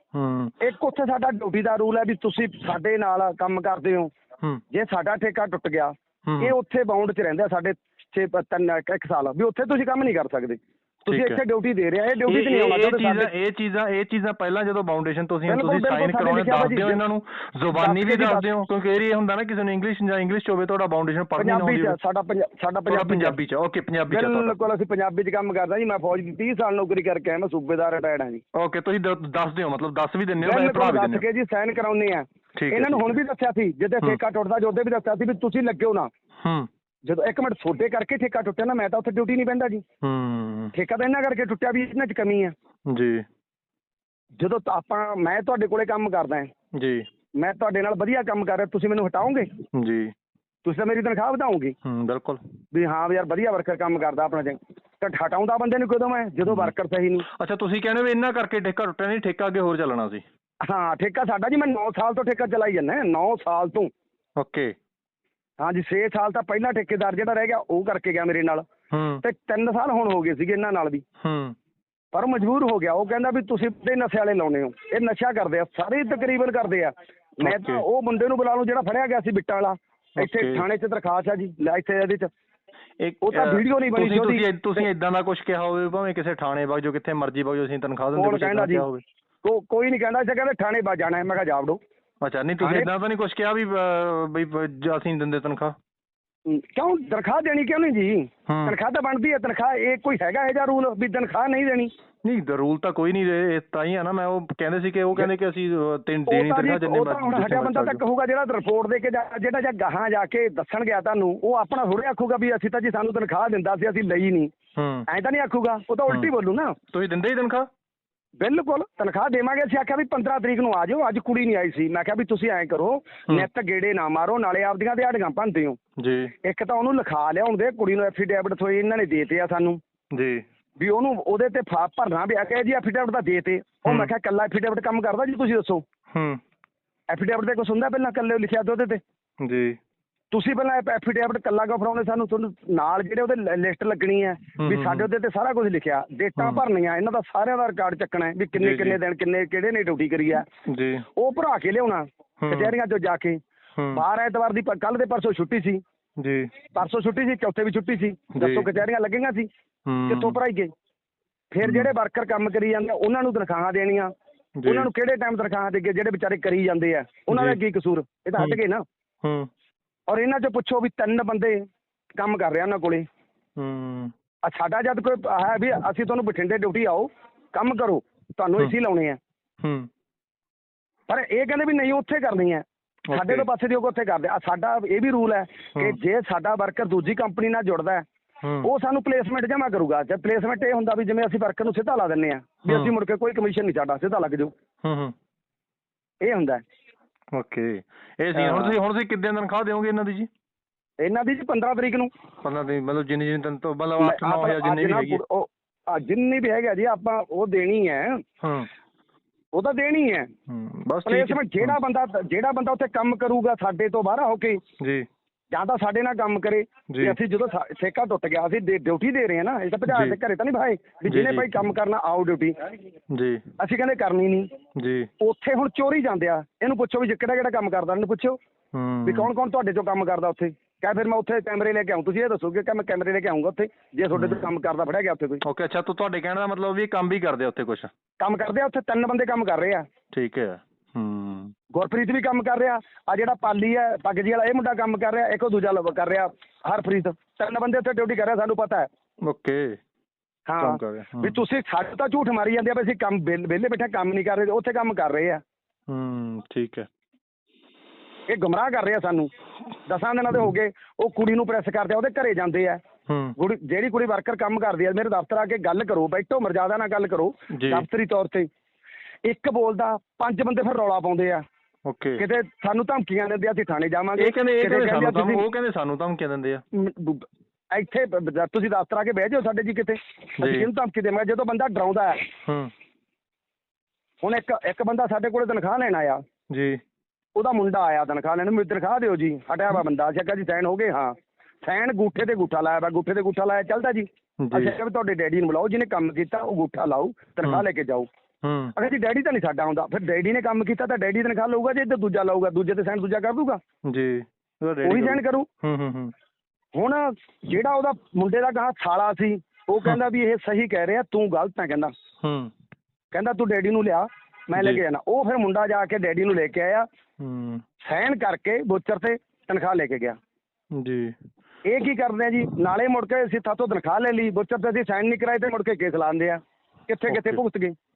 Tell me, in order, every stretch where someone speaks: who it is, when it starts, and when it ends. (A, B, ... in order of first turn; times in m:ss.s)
0:00.1-0:00.6 A
0:00.6-0:04.1 B
0:04.7-0:13.3 B
0:06.3-0:06.6 A
0:11.1-0:11.4 A
0:12.3-0:22.0 A
0:15.5-0:17.0 B
0:17.7-0:18.5 B
0:21.4-0:23.4 B
0:22.9-0:24.6 A
0:24.1-0:28.4 B
0:28.6-0:31.2 A
0:30.4-0:36.1 B
0:32.6-0:33.1 A
0:36.4-0:36.7 A
0:37.0-0:39.8 B
0:40.0-0:40.7 A
0:40.7-0:42.6 B
0:42.9-0:43.3 A
0:44.4-0:46.5 B
0:46.7-0:47.1 A
0:47.4-0:49.6 B
0:49.7-0:50.1 A
0:50.6-0:51.8 B
0:51.8-0:52.4 A
0:52.7-0:57.3 B
0:57.4-1:00.2 A
1:00.6-1:03.9 B
1:04.4-1:04.8 A
1:05.6-1:08.6 B
1:08.9-1:09.2 A
1:09.2-1:11.0 B
1:11.2-1:11.6 A
1:12.1-1:22.3 B
1:17.4-1:17.8 A
1:20.2-1:20.7 A
1:23.0-1:29.0 A
1:23.2-1:24.8 B
1:28.2-1:28.9 B
1:29.4-1:31.8 B
1:32.2-1:35.8 A
1:32.6-1:32.9 B
1:36.5-1:41.9 B
1:38.5-1:38.8 A
1:42.2-1:48.0 A
1:46.3-1:54.5 B
1:54.8-1:55.1 A
1:55.1-1:56.8 B
1:56.9-1:57.7 A
1:58.4-2:05.8 B
2:06.0-2:06.3 A
2:06.4-2:09.8 B
2:10.1-2:10.4 A
2:10.8-2:15.8 B
2:13.9-2:14.1 A
2:16.1-2:16.4 A
2:17.1-2:19.0 B
2:19.4-2:19.8 A
2:20.3-2:30.5 B
2:24.6-2:25.1 A
2:26.4-2:26.6 A
2:28.6-2:29.0 A
2:30.7-2:31.0 A
2:31.1-2:33.4 B
2:32.4-2:32.7 A
2:33.8-2:34.0 A
2:33.9-2:35.8 B
2:36.2-2:36.5 A
2:36.7-2:39.5 B
2:38.3-2:38.7 A
2:39.9-2:40.4 A
2:40.1-2:40.7 B
2:41.5-2:44.1 B
2:41.6-2:41.9 A
2:44.6-2:44.9 A
2:44.7-2:48.8 B
2:47.3-2:47.6 A
2:49.2-2:49.5 A
2:50.1-2:53.1 B
2:53.6-2:54.1 A
2:54.4-2:59.2 B
2:59.6-2:59.9 A
3:01.1-3:08.0 B
3:03.1-3:03.5 A
3:08.4-3:08.7 A
3:08.6-3:14.5 B
3:12.7-3:12.9 A
3:14.8-3:15.1 A
3:16.2-3:16.6 B
3:17.3-3:20.3 A
3:18.4-3:18.8 B
3:21.0-3:22.1 B
3:22.4-3:25.2 A
3:24.0-3:28.3 B
3:28.4-3:28.7 A
3:29.5-3:30.3 B
3:30.5-3:31.8 A
3:31.0-3:34.7 B
3:34.8-3:35.1 A
3:35.5-3:42.8 B
3:36.9-3:37.2 A
3:39.9-3:40.2 A
3:41.1-3:41.5 A
3:43.1-3:43.4 A
3:43.6-3:44.6 B
3:44.8-3:45.1 A
3:45.2-3:48.4 B
3:48.7-3:49.3 A
3:49.0-3:55.4 B
3:54.2-3:54.5 A
3:55.4-3:57.9 A
3:58.2-3:59.9 B
4:00.1-4:01.5 A
4:01.7-4:08.9 B
4:09.2-4:09.8 A
4:10.5-4:15.4 B
4:10.6-4:11.4 A
4:15.9-4:16.9 A
4:18.3-4:19.3 B
4:19.9-4:22.8 B
4:23.1-4:23.4 A
4:23.4-4:28.5 B
4:27.5-4:27.8 A
4:29.2-4:31.4 B
4:31.9-4:32.2 A
4:32.2-4:35.5 B
4:34.2-4:36.6 A
4:36.7-4:42.4 B
4:40.4-4:40.7 A
4:42.5-4:42.7 A
4:44.2-4:46.2 B
4:46.5-4:46.8 A
4:47.4-4:58.1 B
4:54.4-4:54.8 A
4:58.4-4:58.7 A
4:58.8-5:03.6 B
5:03.8-5:06.1 A
5:04.8-5:05.5 B
5:06.8-5:11.9 B
5:12.2-5:12.5 A
5:13.1-5:16.9 B
5:14.6-5:14.8 A
5:17.2-5:17.6 A
5:17.8-5:20.2 B
5:20.7-5:21.2 A
5:21.6-5:27.8 B
5:27.1-5:27.4 A